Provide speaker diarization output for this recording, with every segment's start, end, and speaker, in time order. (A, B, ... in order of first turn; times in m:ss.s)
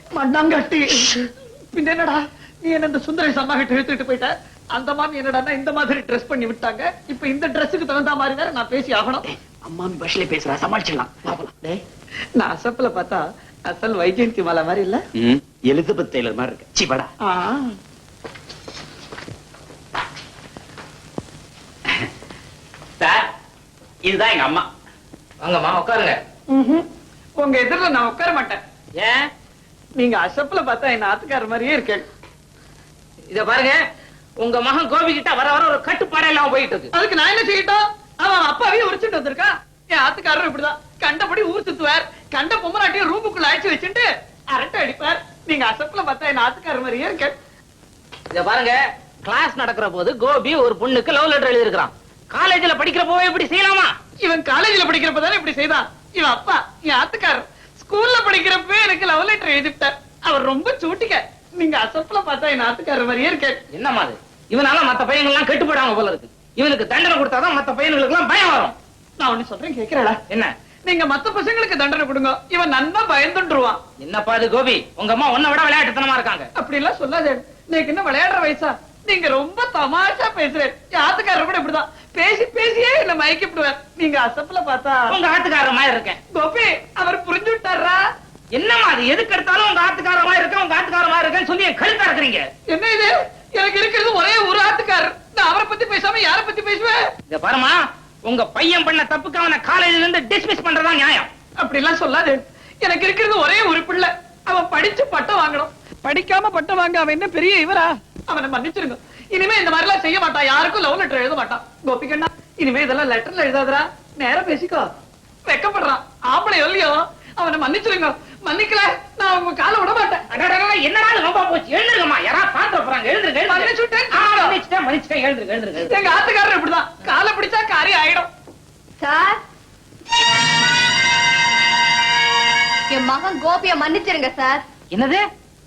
0:00.1-0:01.1 A
0:01.7-0:09.2 A
0:09.4-0:11.7 B
0:12.4-0:15.0 A
0:15.2-0:17.1 B
0:17.2-0:17.7 A
0:24.2-0:24.6 C
0:25.4-0:26.2 C
0:26.5-0:26.8 A
0:27.4-0:28.6 A
0:29.0-0:29.3 C
0:30.0-0:32.0 A
0:33.3-0:33.8 C
0:34.4-0:36.9 C
0:36.9-0:47.3 A
0:48.3-0:54.0 C
0:54.2-1:03.6 A
1:03.7-1:08.7 C
1:09.2-1:10.2 A
1:10.8-1:13.8 A
1:14.0-1:16.5 C
1:16.6-1:25.1 A
1:25.1-1:26.2 C
1:26.3-1:28.0 A
1:28.5-1:32.5 C
1:32.7-1:37.0 A
1:37.3-1:41.3 C
1:41.6-1:54.9 A
1:55.5-2:00.2 A
2:00.3-2:05.9 C
2:03.5-2:04.6 A
2:05.8-2:08.3 A
2:09.0-2:09.4 D
2:12.9-2:14.6 D
2:14.9-2:15.2 C